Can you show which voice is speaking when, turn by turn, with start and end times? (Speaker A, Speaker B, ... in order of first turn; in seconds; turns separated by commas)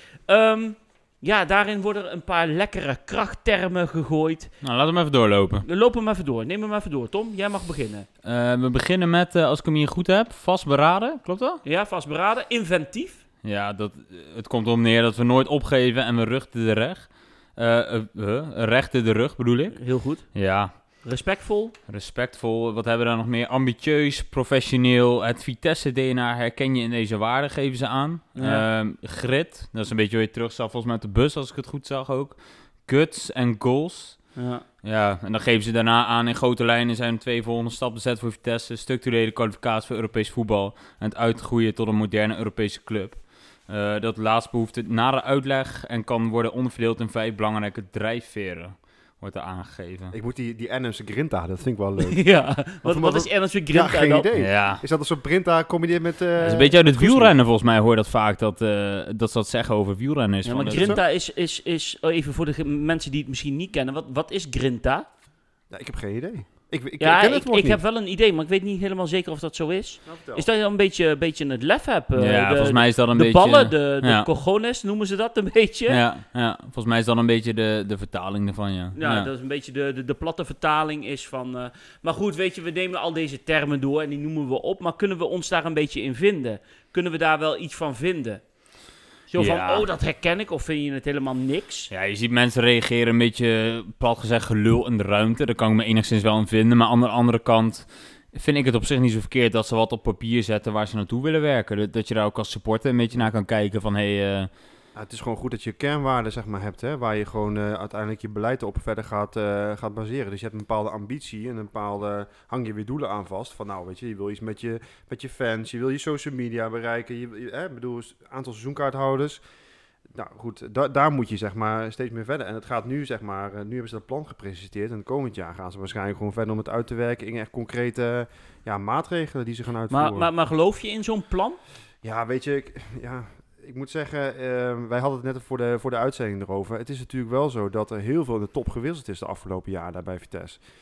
Speaker A: 0.3-4.5, Speaker B: 4.6-5.7, Speaker A: 5.6-8.1, Speaker B: 8.2-11.6, Speaker A: 11.6-13.2, Speaker B: 13.4-19.8, Speaker A: 19.7-20.3, Speaker B: 20.3-20.7, Speaker A: 20.8-21.7, Speaker B: 21.9-34.3, Speaker A: 28.4-28.6, Speaker A: 34.4-34.6, Speaker B: 34.8-50.1, Speaker C: 50.1-57.3, Speaker A: 52.0-54.3, Speaker B: 54.3-54.8, Speaker B: 56.4-61.0, Speaker A: 60.4-65.0, Speaker C: 60.7-61.0, Speaker C: 65.7-67.8, Speaker A: 67.0-76.0, Speaker C: 70.0-70.5, Speaker B: 72.2-74.3, Speaker B: 75.9-79.3, Speaker A: 78.9-88.4, Speaker A: 89.3-91.9, Speaker B: 89.4-89.8, Speaker B: 91.9-104.5, Speaker C: 104.9-119.4, Speaker C: 120.1-130.3, Speaker A: 129.9-131.6, Speaker C: 132.0-140.6